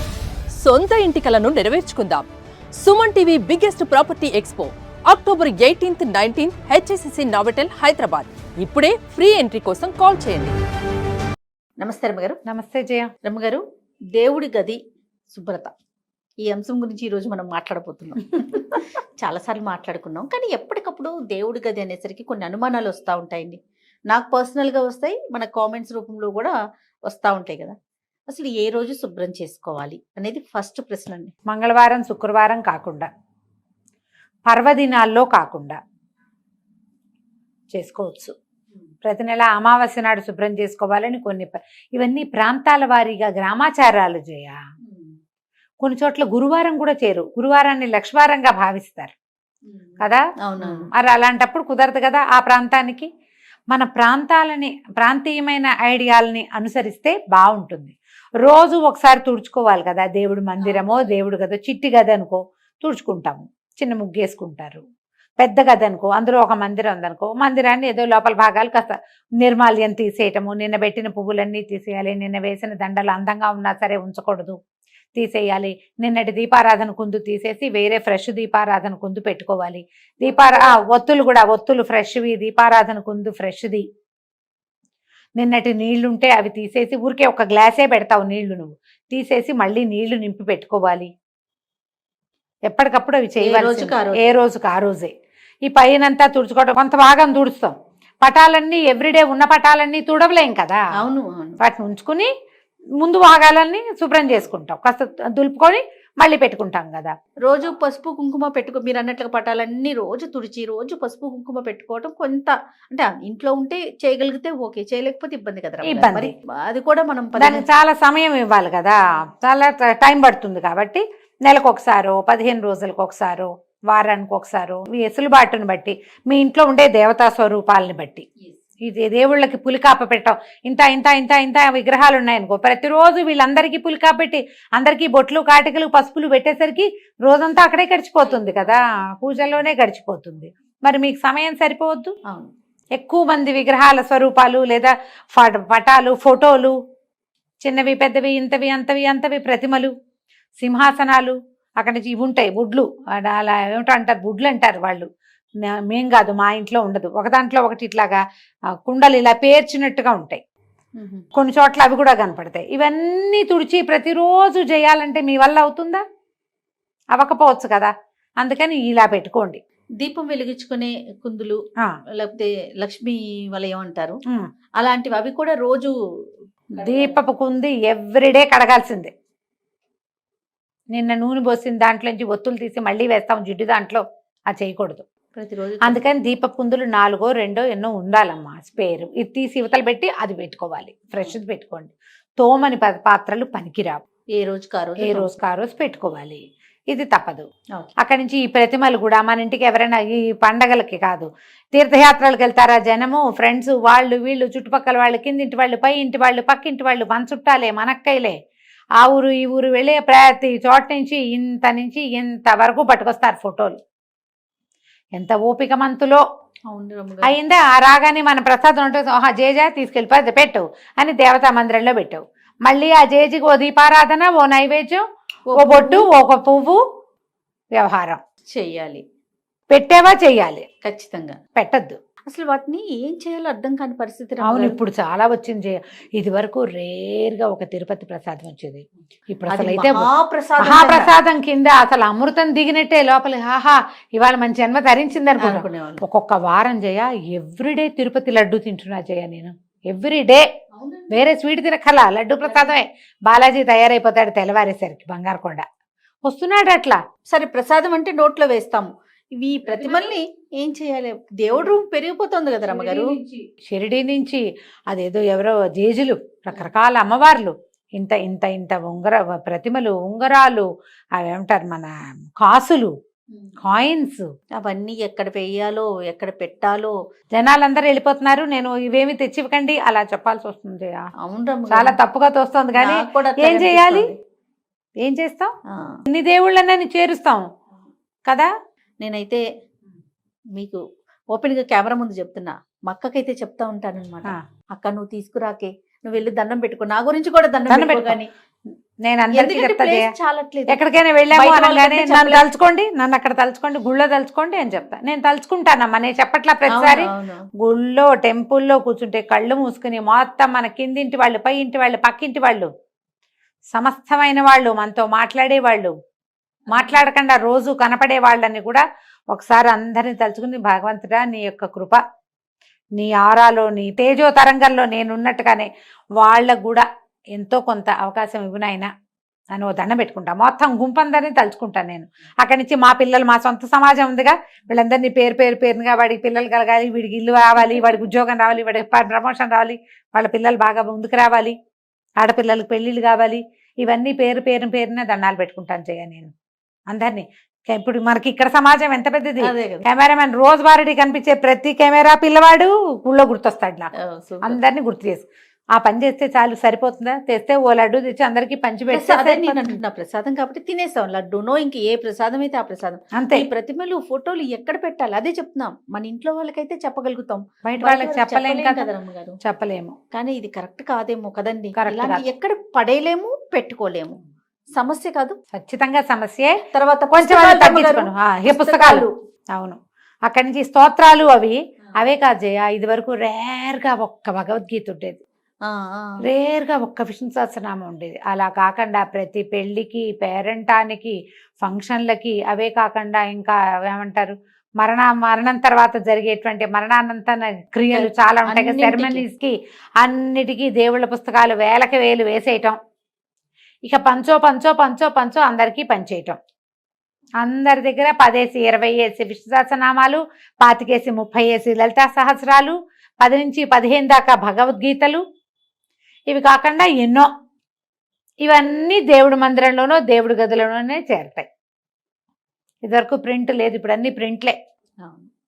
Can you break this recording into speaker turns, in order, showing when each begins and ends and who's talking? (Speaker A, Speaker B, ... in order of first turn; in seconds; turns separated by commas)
Speaker A: 0.6-2.3, Speaker A: 2.8-10.6, Speaker B: 11.8-12.4, Speaker C: 12.5-13.1, Speaker B: 13.3-13.6, Speaker B: 14.2-14.8, Speaker B: 15.3-15.7, Speaker B: 16.4-23.6, Speaker B: 24.1-26.6, Speaker B: 27.1-27.8, Speaker B: 28.3-31.3, Speaker C: 31.5-33.1, Speaker C: 34.5-35.8, Speaker C: 37.7-38.3, Speaker C: 39.0-44.6, Speaker B: 44.8-45.1, Speaker C: 45.8-49.1, Speaker B: 49.7-50.9, Speaker C: 50.0-53.1, Speaker C: 53.7-64.8, Speaker B: 60.6-61.1, Speaker C: 65.4-74.6, Speaker C: 75.2-83.8, Speaker B: 80.2-80.8, Speaker C: 85.4-91.1, Speaker C: 92.7-95.1, Speaker B: 93.4-94.4, Speaker C: 95.7-100.8, Speaker B: 101.0-101.6, Speaker C: 101.6-102.3, Speaker C: 103.0-107.1, Speaker B: 107.5-117.7, Speaker C: 115.8-116.3, Speaker C: 117.4-128.3, Speaker C: 128.8-142.1, Speaker B: 138.2-139.0, Speaker C: 143.0-146.8, Speaker C: 147.6-149.9, Speaker C: 150.6-155.1, Speaker C: 155.6-158.2, Speaker C: 158.8-160.4, Speaker B: 161.0-161.3, Speaker C: 161.4-166.0, Speaker C: 167.1-169.6, Speaker B: 170.0-171.6, Speaker B: 172.2-174.2, Speaker B: 174.8-175.9, Speaker B: 176.7-177.2, Speaker C: 176.8-179.1, Speaker C: 180.9-185.1, Speaker B: 185.3-186.0, Speaker C: 185.8-194.0, Speaker B: 194.4-195.3, Speaker C: 195.0-197.5, Speaker C: 198.0-208.4, Speaker C: 209.0-213.8, Speaker C: 215.2-216.2, Speaker B: 216.7-217.4, Speaker C: 217.2-225.0, Speaker B: 225.5-226.1, Speaker C: 225.6-226.8, Speaker C: 227.8-228.2, Speaker B: 228.6-229.0, Speaker C: 229.7-230.7, Speaker B: 230.8-231.4, Speaker C: 231.6-232.0, Speaker B: 232.3-234.8, Speaker C: 234.4-240.1, Speaker B: 239.5-241.2, Speaker C: 240.6-250.5, Speaker B: 245.4-246.0, Speaker B: 250.7-251.2, Speaker C: 251.1-255.7, Speaker B: 252.4-252.7, Speaker C: 256.2-257.0, Speaker B: 257.3-263.1, Speaker C: 259.7-260.2, Speaker C: 262.7-270.7, Speaker C: 271.2-272.9, Speaker C: 273.6-274.3, Speaker B: 274.6-276.9, Speaker C: 277.4-281.1, Speaker B: 281.2-282.0, Speaker C: 281.7-284.1, Speaker B: 282.8-284.1, Speaker C: 285.0-285.5, Speaker B: 285.7-286.0, Speaker C: 286.1-287.4, Speaker B: 289.0-289.4, Speaker B: 290.6-298.3, Speaker C: 297.7-298.2, Speaker C: 299.1-300.1, Speaker B: 299.3-302.5, Speaker C: 300.7-307.1, Speaker B: 306.7-307.4, Speaker C: 307.6-312.7, Speaker C: 313.7-315.9, Speaker B: 316.7-317.0, Speaker C: 316.7-322.0, Speaker C: 323.0-328.9, Speaker C: 329.5-341.6, Speaker C: 342.2-346.3, Speaker C: 346.9-353.9, Speaker B: 349.4-349.8, Speaker B: 354.0-354.6, Speaker C: 354.4-359.8, Speaker B: 358.9-369.4, Speaker C: 363.1-363.5, Speaker C: 367.6-368.9, Speaker C: 369.4-370.0, Speaker B: 370.1-374.2, Speaker C: 371.8-372.2, Speaker B: 374.8-375.4, Speaker C: 375.5-376.6, Speaker B: 376.7-379.1, Speaker C: 377.1-385.2, Speaker B: 385.7-386.2, Speaker C: 386.2-402.8, Speaker B: 397.9-399.3, Speaker C: 403.9-406.4, Speaker C: 407.4-415.2, Speaker C: 416.3-417.3, Speaker C: 418.4-421.5, Speaker C: 422.9-424.6, Speaker B: 425.0-425.3